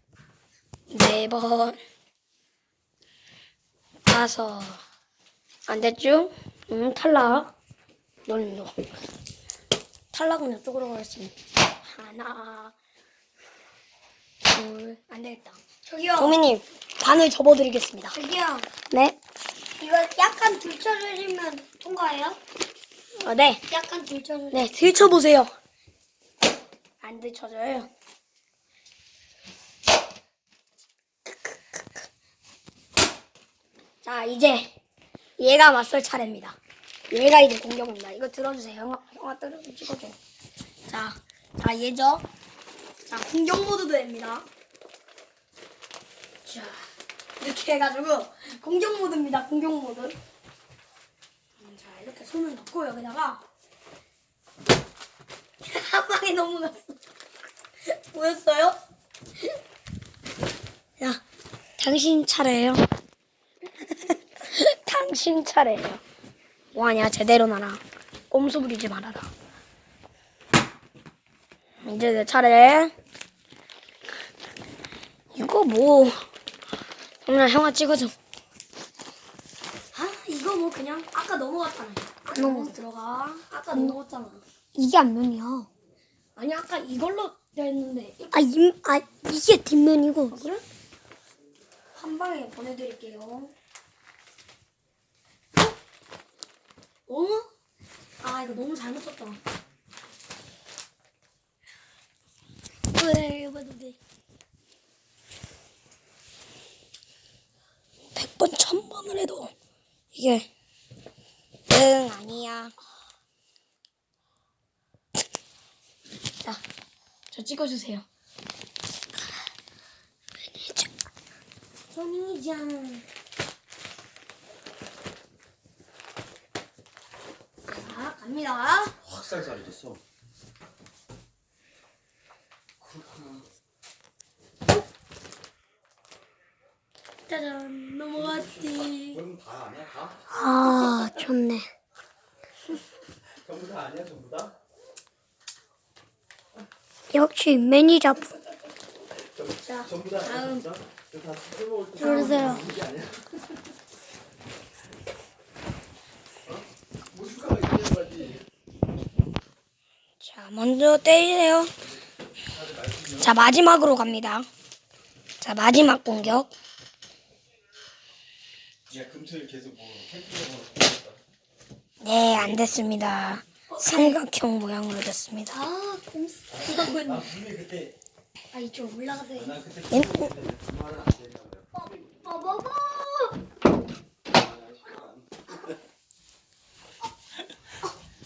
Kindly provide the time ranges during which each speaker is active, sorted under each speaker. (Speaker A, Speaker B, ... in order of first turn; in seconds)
Speaker A: 0.9-1.8, 4.1-4.8, 5.7-7.5, 8.3-8.8, 10.1-12.8, 14.5-18.2, 18.9-19.2, 23.2-23.7, 24.5-25.5, 27.0-27.9, 34.0-34.7, 35.4-36.6, 37.1-40.2, 40.9-42.3, 43.1-44.5, 46.5-46.8, 47.4-50.2, 51.6-53.4, 55.6-57.0, 57.9-58.8, 61.8-62.9, 63.8-66.0, 66.7-69.3, 71.8-72.9, 75.3-76.2, 77.3-78.1, 79.9-84.4, 86.4-88.5, 90.3-90.6, 91.9-93.5, 97.1-97.5, 98.2-99.4, 102.9-104.0, 108.2-109.5, 110.1-110.5, 111.7-112.8, 117.3-118.0, 120.6-120.9, 121.9-123.0, 127.7-129.0, 137.3-139.2, 149.7-150.7, 160.2-161.7, 163.1-164.5, 165.4-166.5, 172.0-175.7, 176.7-177.2, 179.4-180.3
Speaker B: 15.8-16.4, 18.1-18.7, 19.8-22.4, 23.7-24.7, 82.3-82.8, 84.8-85.7, 88.3-90.5, 140.3-141.7, 147.1-148.3, 151.9-152.8, 173.7-174.2, 175.6-177.3, 178.5-179.6, 181.8-183.4
Speaker C: 129.1-130.0, 132.8-133.4, 138.4-140.2, 143.4-144.6, 149.4-153.2, 157.1-158.4, 162.6-163.1, 168.9-171.2, 176.7-177.9, 179.4-181.7, 184.4-185.4